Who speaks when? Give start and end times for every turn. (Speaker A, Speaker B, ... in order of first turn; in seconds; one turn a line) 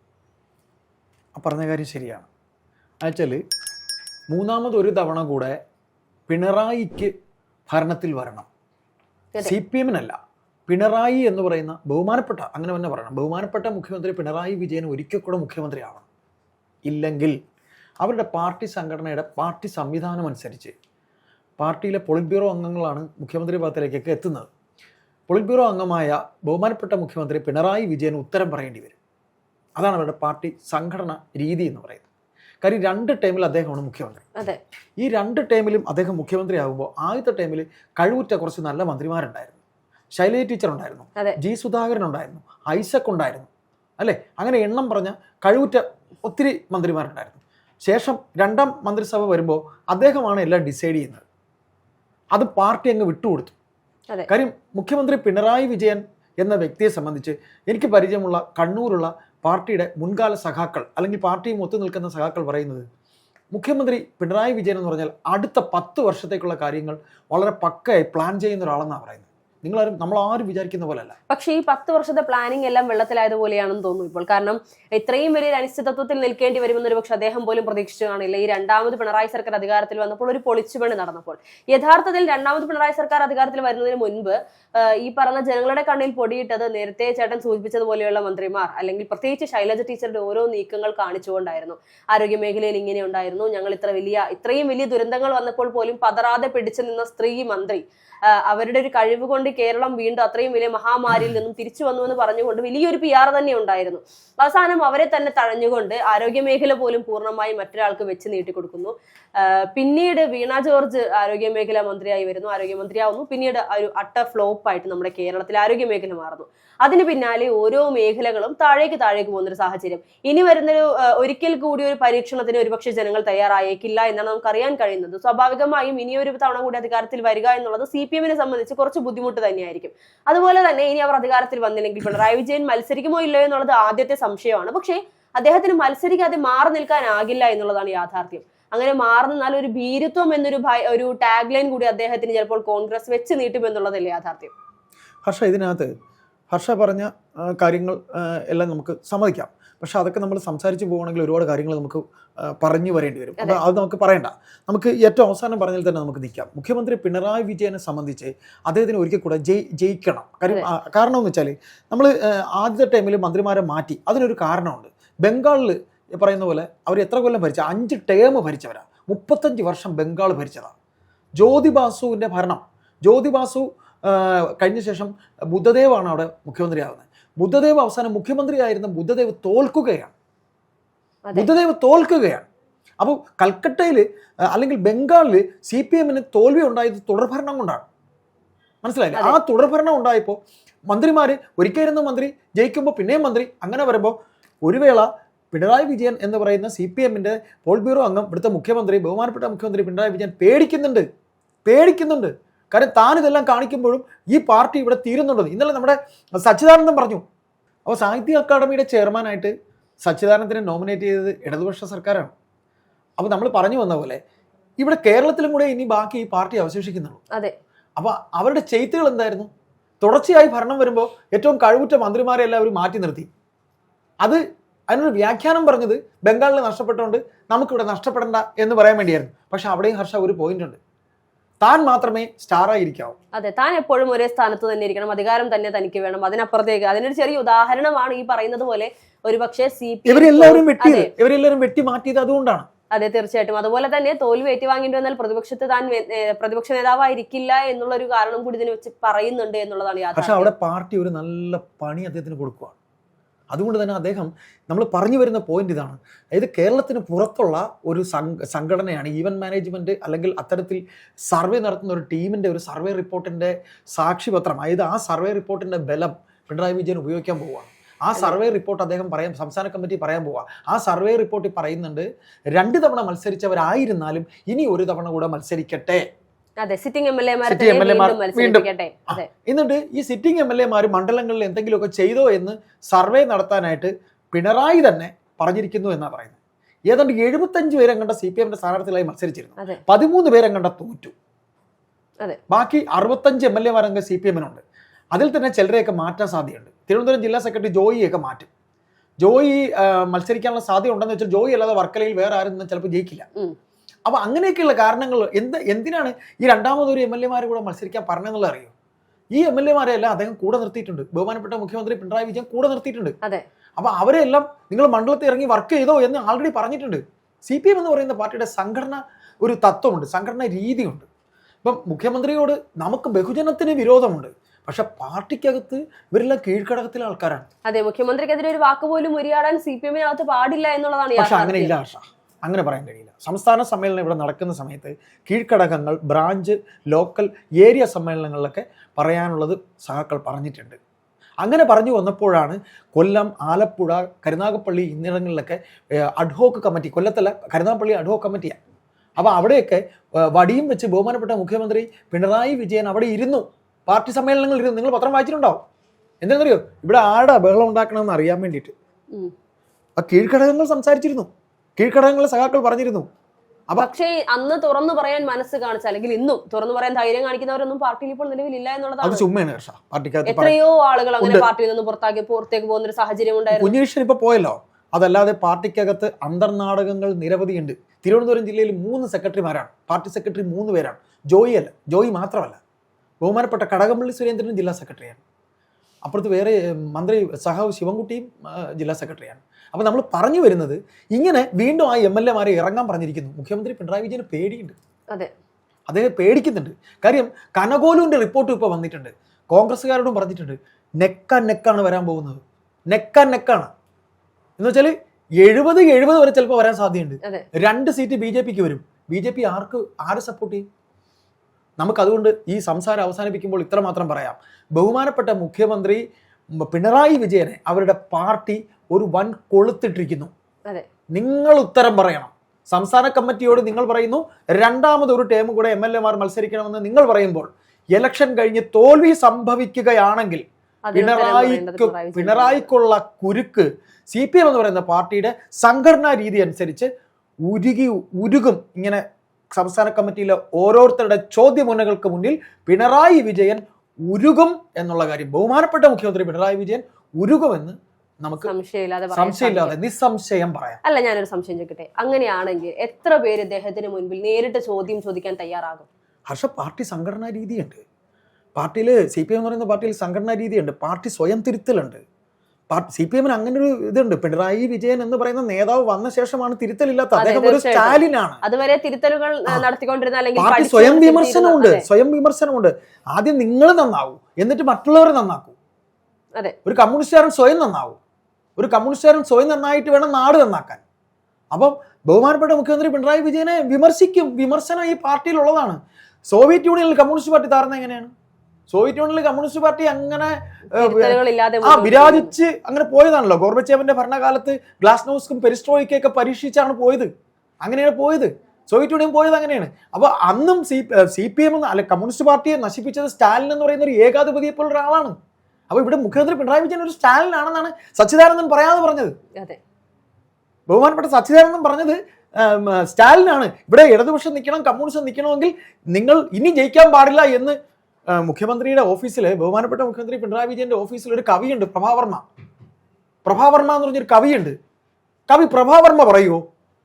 Speaker A: 1.3-2.3
Speaker A: 3.0-3.4
Speaker A: 4.3-5.5
Speaker A: 6.3-7.1
Speaker A: 7.7-8.5
Speaker A: 9.4-10.2
Speaker A: 10.7-16.0
Speaker A: 16.9-17.4
Speaker A: 18.0-20.7
Speaker A: 21.6-24.5
Speaker A: 25.3-28.9
Speaker A: 29.8-32.0
Speaker A: 32.6-34.2
Speaker A: 35.0-39.6
Speaker A: 40.1-51.2
Speaker A: 52.3-53.5
Speaker A: 54.3-62.8
Speaker A: 63.5-71.2
Speaker B: 71.3-144.5
Speaker A: 145.2-145.9
Speaker A: 146.5-170.7
Speaker A: 171.4-180.1
Speaker A: 181.3-182.4
Speaker A: 183.0-187.8
Speaker A: 188.8-190.4
Speaker A: 190.9-201.1
Speaker A: 201.6-207.2
Speaker A: 207.8-212.3
Speaker A: 213.2-214.2
Speaker A: 214.8-217.2
Speaker A: 218.0-219.5
Speaker A: 220.0-223.3
Speaker A: 224.2-230.8
Speaker A: 231.6-233.2
Speaker B: 233.3-241.1
Speaker A: 240.1-242.7
Speaker B: 242.9-250.5
Speaker A: 250.2-252.8
Speaker A: 253.5-276.0
Speaker B: 268.1-268.4
Speaker B: 276.6-279.3
Speaker A: 277.4-286.4
Speaker A: 286.9-291.1
Speaker A: 292.5-294.6
Speaker A: 295.1-298.5
Speaker A: 299.2-303.3
Speaker A: 304.1-308.7
Speaker A: 309.3-313.1
Speaker A: 313.8-321.1
Speaker A: 321.6-327.4
Speaker B: 327.6-331.7
Speaker A: 331.1-340.8
Speaker A: 341.4-348.6
Speaker A: 349.2-355.6
Speaker A: 356.2-358.7
Speaker A: 360.0-363.1
Speaker B: 363.8-369.2
Speaker A: 369.0-370.5
Speaker B: 370.2-373.7
Speaker A: 371.2-371.5
Speaker A: 373.5-382.6
Speaker A: 383.2-385.2
Speaker A: 386.0-394.8
Speaker A: 395.9-403.7
Speaker A: 404.6-410.6
Speaker A: 411.8-416.0
Speaker A: 416.6-420.3
Speaker A: 421.1-430.4
Speaker B: 430.9-432.7
Speaker A: 430.9-436.9
Speaker A: 437.4-439.0
Speaker A: 439.5-448.5
Speaker B: 448.4-449.8
Speaker A: 449.1-450.8
Speaker B: 450.8-455.9
Speaker A: 456.3-457.8
Speaker A: 458.5-462.0
Speaker A: 462.7-468.4
Speaker B: 467.1-471.8
Speaker A: 470.4-475.5
Speaker A: 476.6-478.0
Speaker A: 478.6-480.8
Speaker A: 481.5-488.1
Speaker A: 488.7-497.1
Speaker B: 490.7-492.3
Speaker A: 497.6-505.1
Speaker A: 505.7-509.1
Speaker A: 510.7-517.5
Speaker A: 518.1-522.2
Speaker A: 523.2-524.5
Speaker A: 525.3-526.4